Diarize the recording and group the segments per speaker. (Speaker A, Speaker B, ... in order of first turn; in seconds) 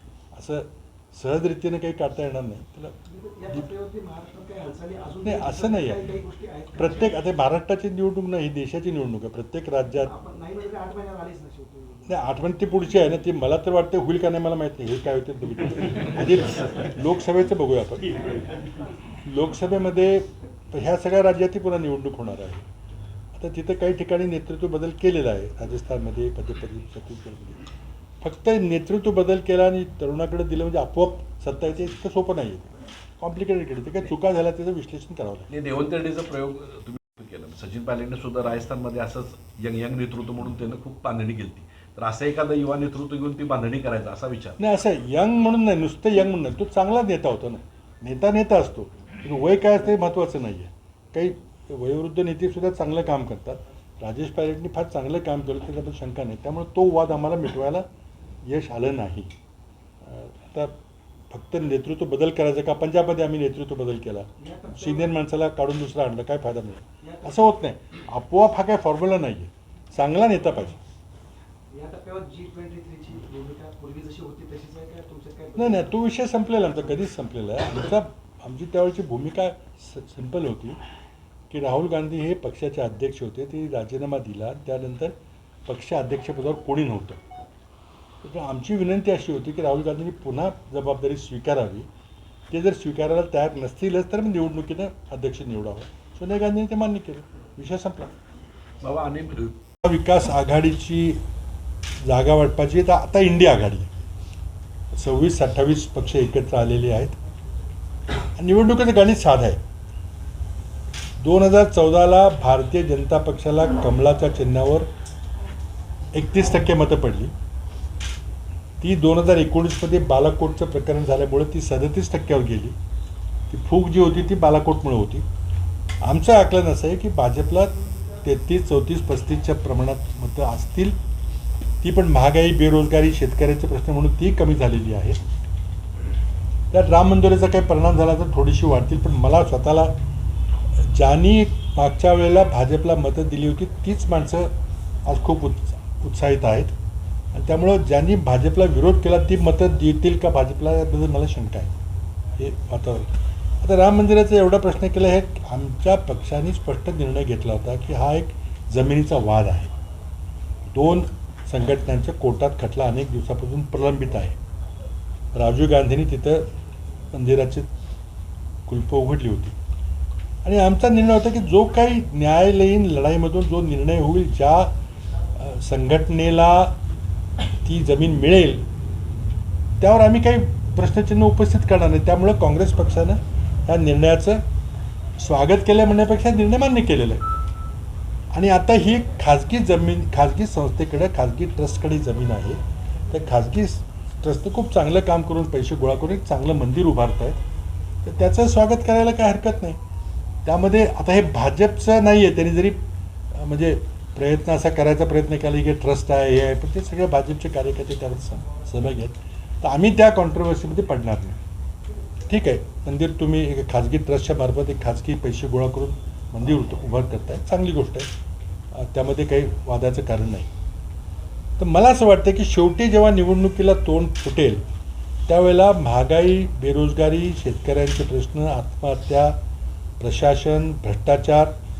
Speaker A: 0.3-2.9, 5.2-6.0, 6.8-10.1, 12.1-18.4, 19.2-22.6, 23.3-27.6, 28.2-35.5, 44.6-57.9, 58.5-59.3, 60.0-60.8, 61.3-70.8, 75.5-80.8, 81.5-85.1, 85.7-87.2, 88.2-91.9, 92.5-98.1, 99.8-101.2, 102.0-103.9, 104.9-107.2, 108.3-109.6, 111.2-114.9, 116.1-117.3, 118.8-122.8, 123.5-125.3, 126.0-131.0, 131.8-135.2, 136.7-139.9, 140.8-144.5, 145.0-146.7, 147.3-151.8, 152.4-153.1, 153.6-159.7, 160.7-164.4, 165.3-166.5, 167.1-167.7, 168.7-169.6, 170.4-174.7, 175.4-176.8, 177.4-178.7, 179.8-184.4, 185.2-187.2, 188.3-197.4, 198.0-199.8, 200.4-202.8, 203.3-211.4, 212.3-218.1, 218.7-220.5, 221.6-224.6, 225.3-229.4, 230.0-231.6
Speaker B: 3.1-7.2, 10.0-12.2, 64.4-65.1, 67.0-67.4, 71.7-75.9
Speaker C: 35.5-44.6, 98.8-99.5